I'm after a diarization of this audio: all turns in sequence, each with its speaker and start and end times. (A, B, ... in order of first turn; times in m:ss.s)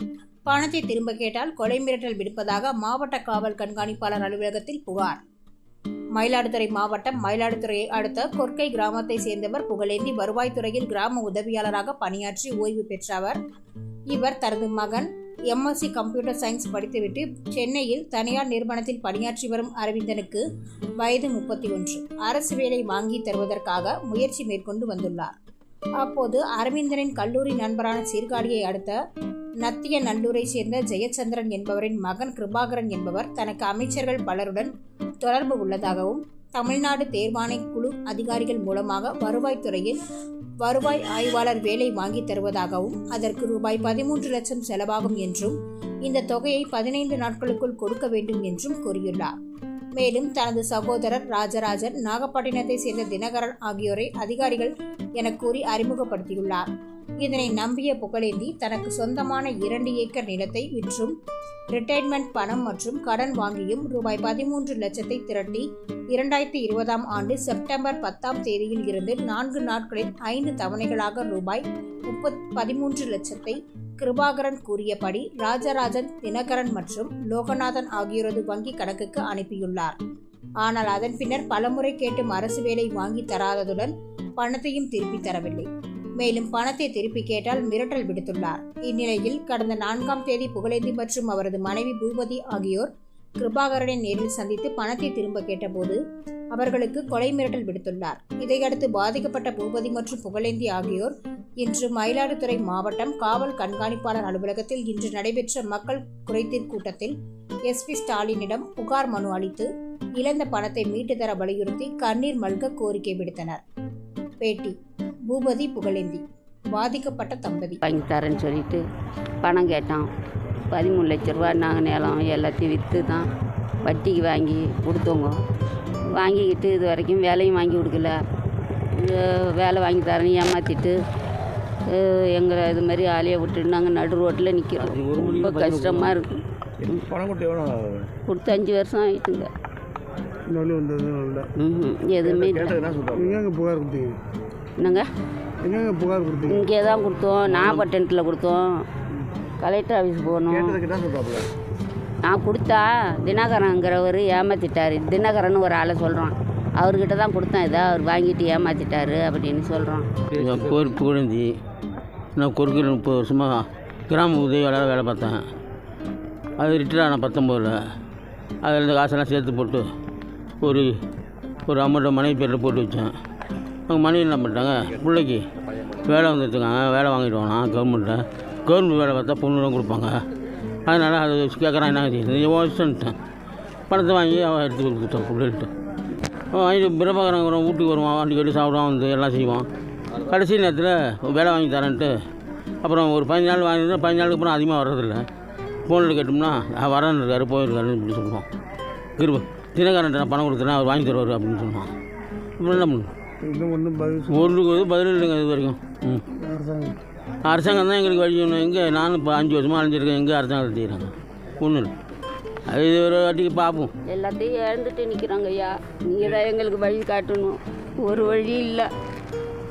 0:00.4-0:05.2 A
0:06.2-0:13.4 A
0:14.1-0:20.4 A
0:21.0-0:25.4 A
0:26.0-0:29.0 A
0:29.6-0:34.7 A
0:35.2-0:40.0 A
0:40.6-0:49.3 A
0:50.0-0:56.7 A
0:57.2-1:01.2 A
1:01.7-1:20.0 A
1:20.6-1:36.0 A
1:36.5-1:47.2 A
1:47.7-1:53.6 A
1:54.4-1:54.8 A
1:55.3-1:57.8 A
1:57.8-1:58.8 B
1:59.4-2:00.1 B
2:00.7-2:03.3 B
2:03.8-2:05.4 B
2:06.1-2:08.2 B
2:08.9-2:11.0 B
2:11.9-2:17.0 B
2:14.8-2:16.2 C
2:16.8-2:18.1 D
2:18.3-2:19.5 B
2:20.5-2:21.5 E
2:21.6-2:22.8 B
2:22.2-2:23.4 D
2:23.1-2:24.2 E
2:24.8-2:25.1 B
2:25.6-2:26.6 E
2:26.5-2:28.8 B
2:27.4-2:27.9 C
2:29.6-2:30.8 B
2:30.5-2:31.5 D
2:32.2-2:40.2 B
2:40.3-2:41.5 C
2:40.5-2:40.8 D
2:42.4-2:45.5 C
2:46.6-2:47.8 C
2:48.6-2:49.9 C
2:50.6-2:51.0 C
2:51.7-2:53.1 C
2:53.9-2:55.4 C
2:56.0-3:00.2 C
3:00.8-3:03.2 C
3:03.9-3:05.7 C
3:06.5-3:12.2 C
3:12.8-3:15.3 C
3:15.8-3:18.5 C
3:19.2-3:21.9 C
3:22.6-3:23.1 C
3:23.4-3:24.5 E
3:24.3-3:26.2 C
3:26.3-3:27.0 E
3:27.4-3:31.9 C
3:32.7-3:33.9 C
3:34.0-3:38.9 B